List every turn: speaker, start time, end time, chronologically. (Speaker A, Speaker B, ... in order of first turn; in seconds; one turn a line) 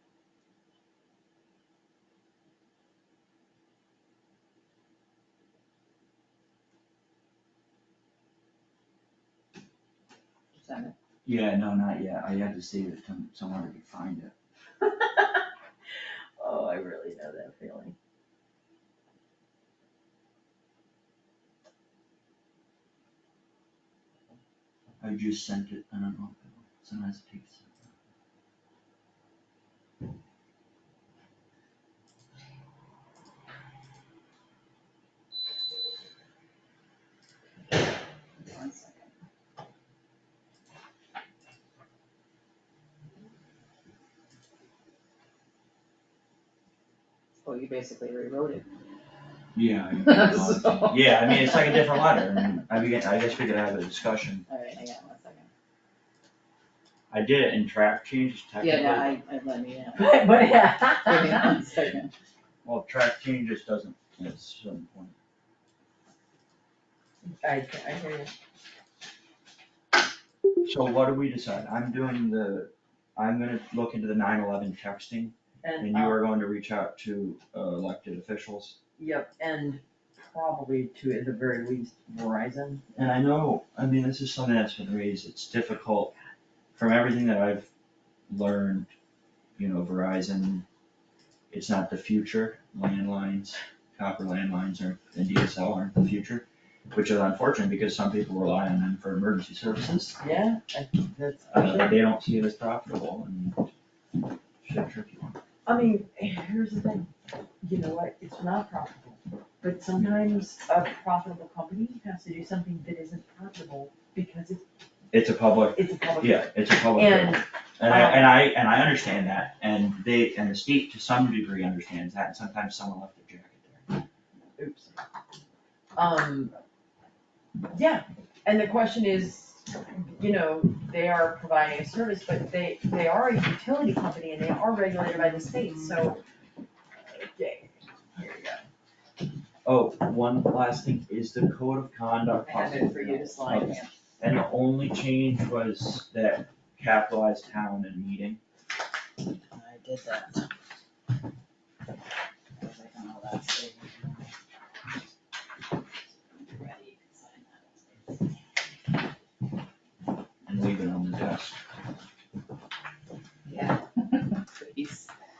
Speaker A: 10.5-10.9
Speaker B: 11.2-14.3
Speaker C: 14.8-15.4
Speaker C: 16.4-17.9
Speaker B: 25.0-27.8
Speaker A: 38.4-39.1
Speaker A: 47.4-48.7
Speaker B: 49.5-54.5
Speaker A: 50.0-51.9
Speaker A: 54.5-55.5
Speaker B: 57.1-59.2
Speaker A: 58.6-60.2
Speaker C: 59.9-61.6
Speaker A: 61.1-62.1
Speaker B: 62.6-65.2
Speaker C: 67.4-68.3
Speaker B: 70.6-78.8
Speaker C: 75.6-76.2
Speaker C: 79.0-82.8
Speaker B: 82.9-86.1
Speaker B: 86.8-87.7
Speaker B: 88.3-88.9
Speaker B: 89.6-90.7
Speaker B: 91.5-100.2
Speaker C: 100.2-102.0
Speaker B: 101.5-103.7
Speaker B: 104.6-105.4
Speaker C: 105.6-107.1
Speaker C: 107.6-114.6
Speaker B: 115.1-123.8
Speaker C: 115.7-118.4
Speaker C: 124.6-125.0
Speaker C: 125.9-126.5
Speaker C: 127.7-136.2
Speaker C: 137.1-138.6
Speaker B: 139.6-148.4
Speaker C: 142.4-143.8
Speaker A: 143.6-143.9
Speaker A: 149.5-150.4
Speaker A: 152.5-154.3
Speaker A: 156.1-158.2
Speaker B: 160.4-161.6
Speaker A: 163.4-165.1